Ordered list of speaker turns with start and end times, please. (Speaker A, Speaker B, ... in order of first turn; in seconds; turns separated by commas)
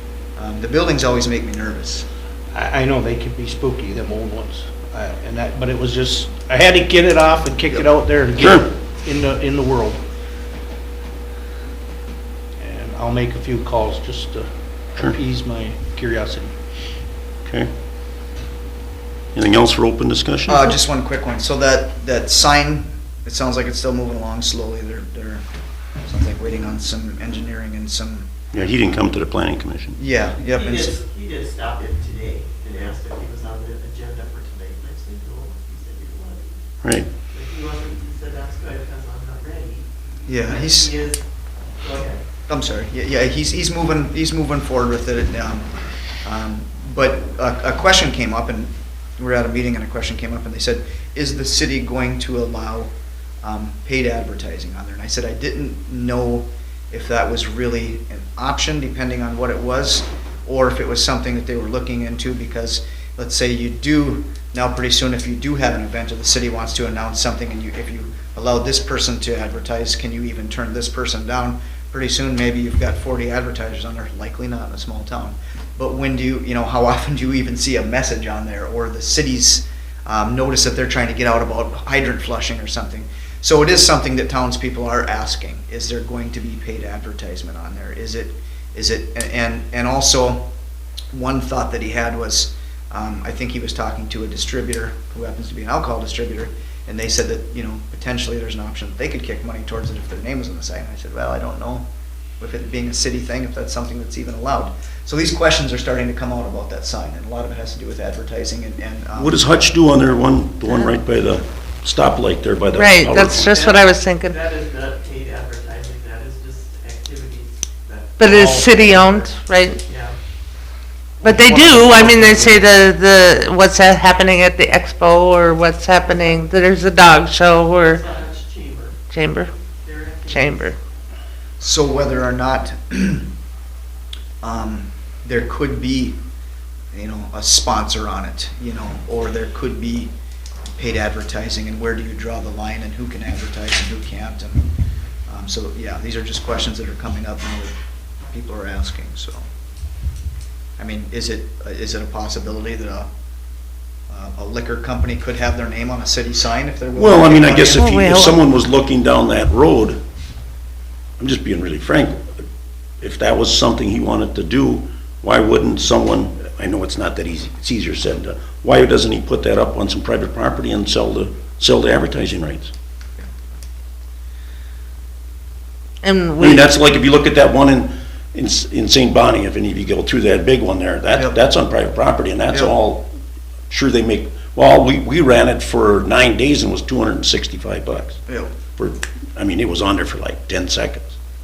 Speaker A: 0.4-2.1, Speaker B: 2.5-10.0, Speaker C: 8.4-8.7, Speaker B: 12.6-16.5, Speaker C: 19.3-20.7, Speaker A: 20.5-25.4, Speaker A: 26.1-28.3, Speaker C: 28.5-30.0, Speaker A: 30.0-31.0, Speaker D: 30.4-36.6, Speaker C: 36.8-37.1, Speaker D: 37.3-39.9, Speaker A: 40.3-40.9, Speaker D: 40.4-41.2, Speaker D: 41.8-42.2, Speaker A: 42.5-45.7, Speaker A: 46.2-52.9, Speaker A: 53.4-90.5, Speaker A: 91.1-101.9, Speaker A: 102.4-109.6, Speaker C: 109.2-113.5, Speaker E: 112.7-114.4, Speaker D: 113.5-119.3, Speaker E: 118.2-119.8, Speaker D: 119.9-120.2, Speaker A: 121.2-122.6, Speaker E: 121.2-128.0, Speaker D: 127.9-129.0, Speaker E: 129.1-129.5, Speaker D: 129.8-130.7, Speaker E: 130.3-130.8, Speaker A: 131.6-133.3, Speaker A: 134.4-136.2, Speaker A: 136.9-140.1, Speaker A: 140.8-144.7, Speaker A: 145.3-147.7, Speaker A: 148.3-149.4, Speaker A: 150.8-153.1, Speaker A: 154.1-157.9, Speaker C: 156.9-160.0, Speaker E: 157.8-158.4, Speaker C: 161.2-162.4, Speaker C: 163.0-172.7, Speaker E: 176.0-176.7, Speaker C: 176.4-183.1, Speaker C: 183.7-188.2, Speaker A: 188.3-188.5, Speaker C: 188.8-191.2